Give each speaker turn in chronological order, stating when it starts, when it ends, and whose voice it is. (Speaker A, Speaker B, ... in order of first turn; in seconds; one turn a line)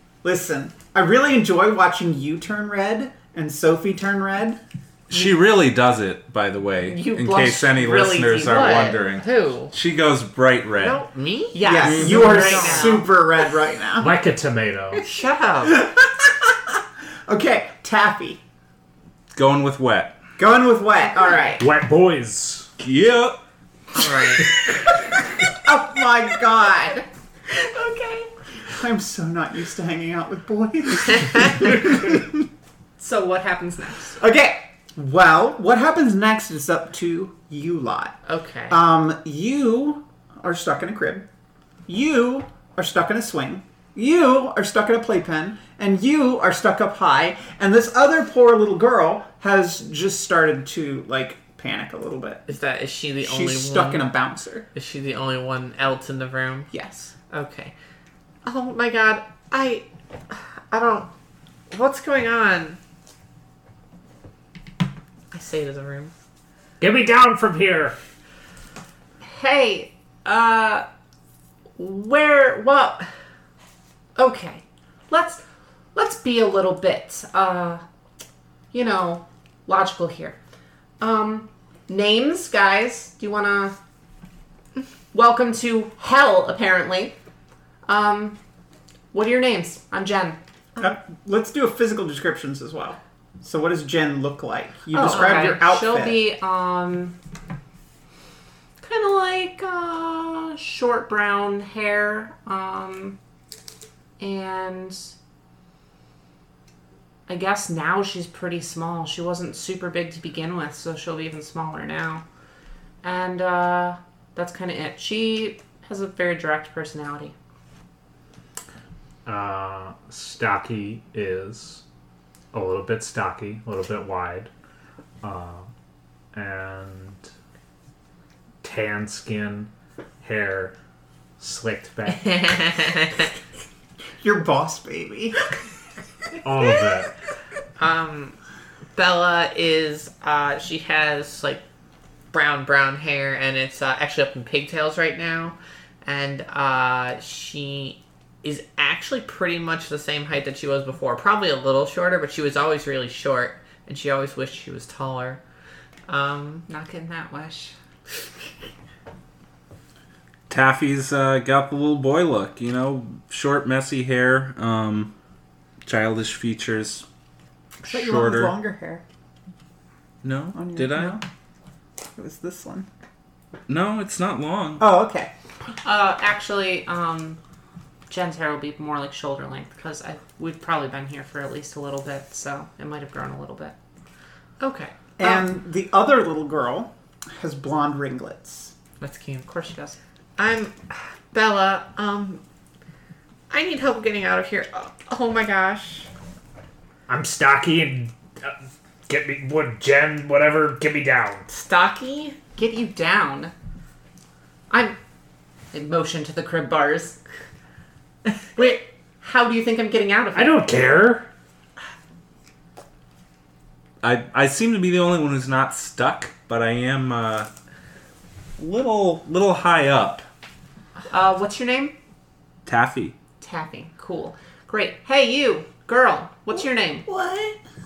Speaker A: 0.2-4.6
Speaker B: 5.1-11.0
Speaker C: 6.9-9.0
Speaker D: 8.6-9.7
Speaker D: 10.8-13.1
Speaker C: 11.5-13.1
Speaker A: 11.6-14.2
Speaker E: 14.0-15.0
Speaker D: 15.0-15.9
Speaker A: 15.6-18.4
Speaker B: 19.3-20.2
Speaker A: 20.4-21.6
Speaker E: 21.6-22.7
Speaker B: 22.8-23.4
Speaker D: 23.9-24.5
Speaker A: 25.4-27.1
Speaker C: 27.5-28.3
Speaker A: 28.7-32.4
Speaker C: 33.0-34.2
Speaker A: 34.2-38.2
Speaker D: 38.3-38.8
Speaker A: 38.7-41.3
Speaker A: 41.9-52.5
Speaker D: 52.5-54.1
Speaker A: 53.2-54.7
Speaker D: 54.8-56.7
Speaker A: 56.7-57.1
Speaker D: 57.3-57.7
Speaker D: 58.4-61.1
Speaker D: 61.7-62.8
Speaker D: 65.3-66.1
Speaker E: 66.8-68.0
Speaker C: 69.2-70.9
Speaker C: 71.8-73.1
Speaker C: 74.2-75.4
Speaker C: 76.0-77.8
Speaker C: 78.7-80.4
Speaker C: 81.0-83.8
Speaker C: 85.1-87.1
Speaker C: 87.9-88.4
Speaker C: 89.1-90.4
Speaker A: 90.8-96.2
Speaker C: 94.9-97.2
Speaker D: 95.0-95.6
Speaker C: 98.8-103.2
Speaker C: 104.2-105.1
Speaker C: 107.3-112.2
Speaker C: 113.0-117.3
Speaker E: 119.3-121.8
Speaker E: 122.5-124.5
Speaker E: 125.2-125.7
Speaker E: 126.3-127.3
Speaker E: 128.6-129.7
Speaker E: 130.2-130.7
Speaker E: 131.4-132.7
Speaker D: 132.2-133.3
Speaker A: 134.2-135.4
Speaker E: 136.4-137.1
Speaker D: 137.8-138.4
Speaker D: 138.9-141.6
Speaker D: 142.3-155.4
Speaker D: 156.1-156.7
Speaker C: 156.7-157.7
Speaker B: 160.5-165.1
Speaker B: 165.8-167.1
Speaker A: 167.8-169.0
Speaker B: 167.8-168.5
Speaker B: 170.2-171.2
Speaker A: 170.5-171.2
Speaker A: 172.2-172.9
Speaker B: 173.7-174.8
Speaker A: 174.8-175.3
Speaker C: 175.8-177.4
Speaker C: 178.1-183.8
Speaker D: 184.6-185.5
Speaker A: 185.2-188.7
Speaker D: 189.0-189.5
Speaker C: 189.5-190.0
Speaker D: 190.4-192.4
Speaker D: 193.5-196.1
Speaker E: 197.1-198.6
Speaker E: 199.1-201.5
Speaker D: 201.5-202.4
Speaker C: 202.6-203.5
Speaker C: 204.7-205.0
Speaker C: 205.7-207.2
Speaker C: 208.6-210.7
Speaker E: 210.3-211.3
Speaker B: 214.0-217.5
Speaker B: 218.6-220.3
Speaker C: 221.1-221.9
Speaker B: 222.7-223.1
Speaker C: 223.4-227.1
Speaker A: 226.6-227.6